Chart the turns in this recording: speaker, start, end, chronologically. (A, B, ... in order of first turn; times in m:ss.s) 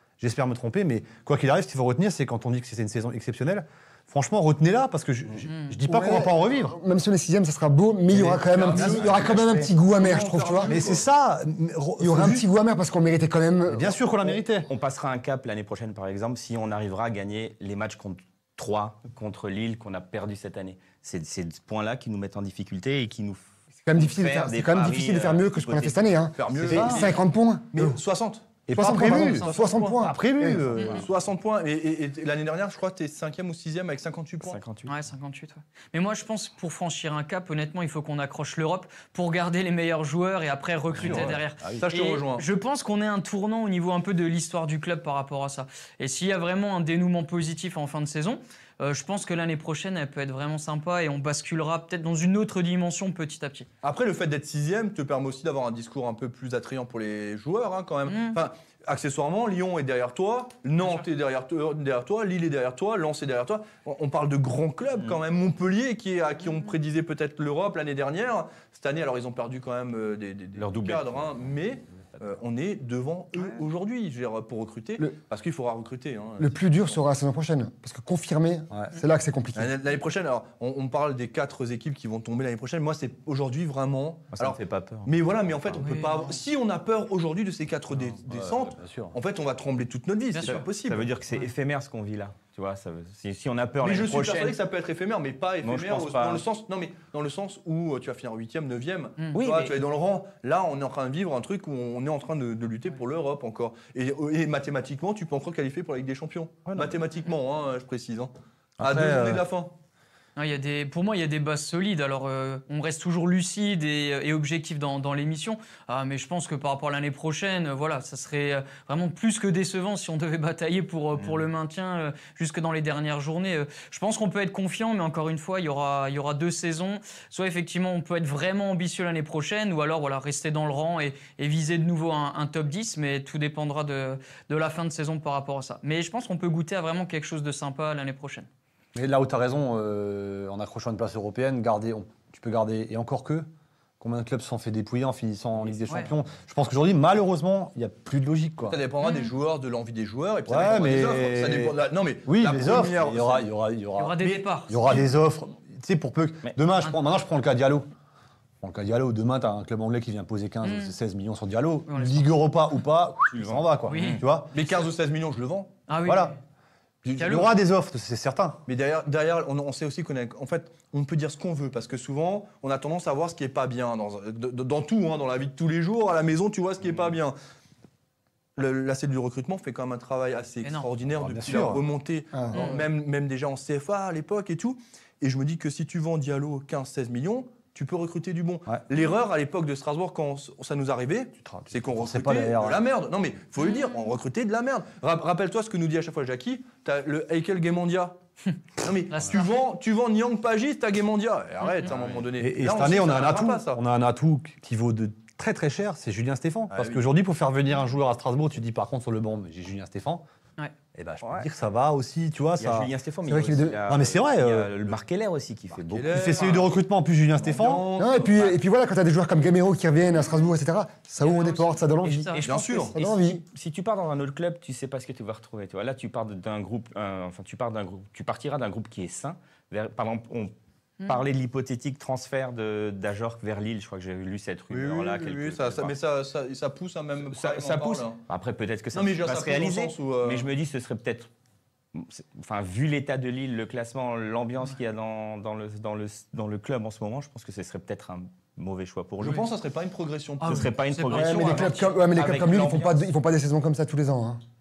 0:00.2-0:06.8 A
0:05.5-0:05.7 B
0:05.9-0:10.8 C
0:08.1-0:11.0 D
0:08.6-0:09.6 E
0:10.6-0:12.5 A
0:12.0-0:14.3 C
0:13.7-0:14.7 A
0:14.6-0:26.1 E
0:23.8-0:28.0 C
0:26.4-0:27.2 D
0:26.7-0:27.1 A
0:27.7-0:30.1 D
0:28.7-0:31.1 A
0:28.7-0:30.7 C
0:30.8-0:34.6 D
0:34.4-0:34.9 E
0:34.8-0:53.7 B
0:40.9-0:42.4 D
0:41.0-0:41.8 A
0:53.8-1:17.0 D
0:58.1-0:58.4 B
1:10.6-1:11.4 E
1:16.4-1:19.7 C
1:18.7-1:19.0 A
1:19.5-1:31.1 D
1:24.3-1:25.8 E
1:25.8-1:26.3 B
1:28.2-1:29.2 A
1:30.3-1:34.6 E
1:33.8-1:49.7 D
1:35.6-1:36.4 E
1:39.3-1:39.8 E
1:48.8-1:49.4 A
1:50.4-2:18.5 B
2:18.9-2:23.5 A
2:24.0-2:28.8 A
2:28.7-2:33.5 D
2:29.0-2:29.3 B
2:30.5-2:37.9 A
2:34.0-2:34.8 B
2:34.2-2:35.1 D
2:38.6-2:44.5 A
2:40.6-2:40.9 B
2:41.9-2:42.3 B
2:43.3-2:44.2 E
2:43.9-2:44.2 B
2:44.5-2:45.8 D
2:45.9-2:46.4 B
2:46.0-2:46.3 A
2:47.0-2:47.5 D
2:47.1-2:48.6 A
2:47.2-2:47.5 B
2:48.6-2:57.4 D
2:58.6-3:18.2 D
3:00.6-3:00.9 B
3:01.2-3:01.8 A
3:02.3-3:02.8 C
3:02.5-3:02.8 B
3:11.4-3:12.8 A
3:13.6-3:13.9 B
3:18.8-3:23.8 D
3:19.1-3:19.4 B
3:21.6-3:21.9 B
3:21.8-3:22.2 E
3:22.4-3:30.2 A
3:26.7-3:27.0 D
3:30.9-3:32.9 A
3:31.2-3:31.5 E
3:32.6-3:36.4 E
3:33.2-3:33.8 C
3:33.9-3:34.7 A
3:35.8-3:36.8 D
3:36.1-3:37.9 A
3:37.4-3:38.6 D
3:38.0-3:42.4 C
3:41.2-3:43.0 B
3:42.4-3:50.5 E
3:42.4-3:43.0 D
3:42.9-3:43.4 C
3:51.0-3:56.0 E
3:54.7-3:58.2 D
3:57.3-4:01.3 E
3:58.9-4:00.5 D
4:01.9-4:09.5 E
4:09.2-4:11.8 D
4:10.4-4:11.7 B
4:10.4-4:13.0 E
4:11.1-4:14.4 C